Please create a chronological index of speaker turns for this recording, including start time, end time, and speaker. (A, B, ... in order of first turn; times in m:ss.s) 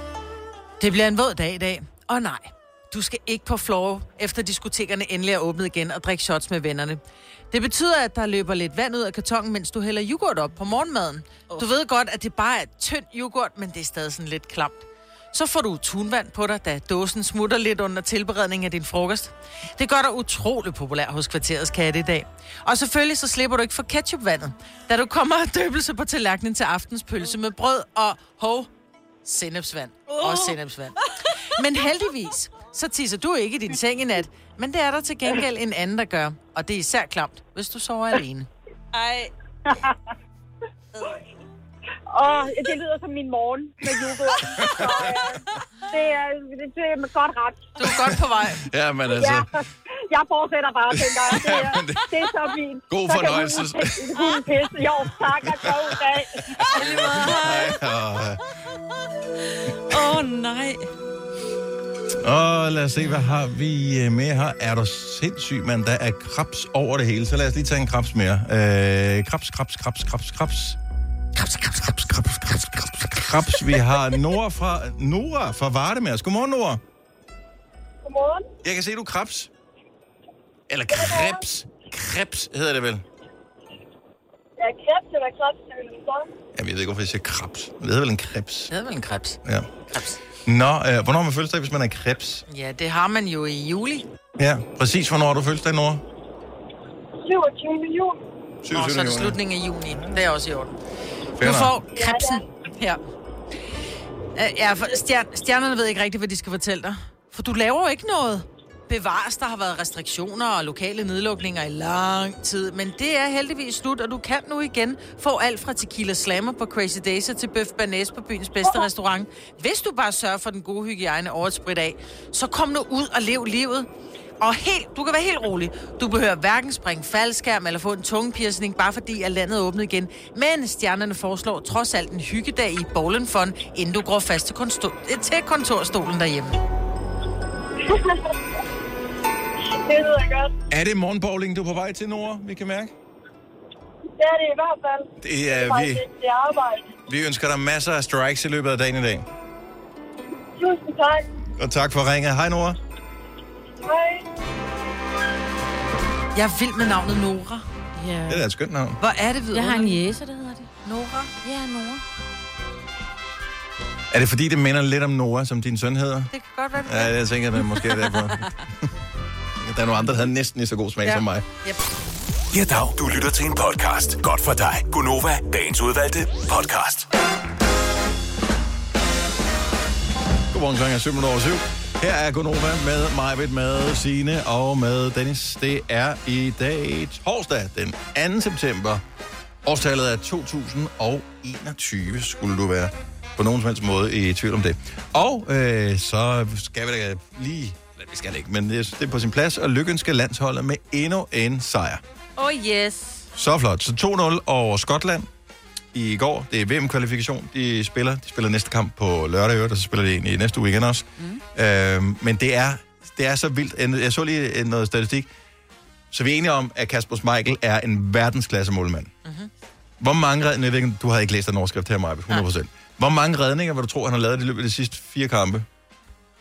0:00.8-0:28.7 A
0:29.2-0:38.5 A
0:30.2-0:30.5 B
0:38.9-0:39.3 B
0:42.1-0:47.8 C
0:43.8-0:45.4 D
0:47.8-0:48.6 A
0:47.9-0:49.5 D
0:49.1-0:49.5 C
0:50.1-0:57.1 C
0:50.9-0:52.4 D
0:52.9-0:54.6 D
0:55.4-0:58.4 D
0:56.7-0:57.7 B
0:59.5-1:00.8 B
1:02.2-1:10.8 D
1:11.4-1:16.8 D
1:18.0-1:18.4 E
1:18.6-1:19.5 D
1:20.7-1:23.0 D
1:20.9-1:21.4 E
1:24.6-1:26.2 E
1:26.5-1:28.7 D
1:28.7-1:30.2 A
1:29.4-1:29.7 D
1:30.4-1:32.4 D
1:32.5-1:34.0 A
1:34.4-1:36.0 D
1:37.2-1:38.2 E
1:38.6-1:39.4 D
1:38.7-1:40.8 A
1:41.4-1:41.8 D
1:41.4-1:43.0 A
1:41.9-1:42.4 E
1:44.3-2:03.9 A
2:04.4-2:16.6 A
2:19.8-2:20.5 E
2:20.7-2:22.9 D
2:24.2-2:26.9 E
2:25.2-2:26.0 D
2:27.1-2:29.3 D
2:30.6-2:31.2 E
2:31.6-2:32.8 D
2:33.8-2:34.2 E
2:36.3-2:37.6 A
2:38.0-2:38.4 B
2:38.3-2:39.0 D
2:39.0-2:40.0 A
2:39.5-2:40.7 B
2:40.8-2:41.3 A
2:41.4-2:42.0 B
2:44.1-2:48.5 D
2:46.3-2:47.2 A
2:47.8-2:48.2 A
2:49.6-2:51.5 D
2:51.0-2:51.8 A
2:52.5-2:57.1 F
3:00.5-3:09.0 D
3:09.6-3:22.0 D
3:22.4-3:23.2 B
3:23.3-3:25.3 D
3:25.9-3:35.3 D
3:36.1-3:39.1 D
3:39.2-3:39.5 A
3:40.0-3:45.6 D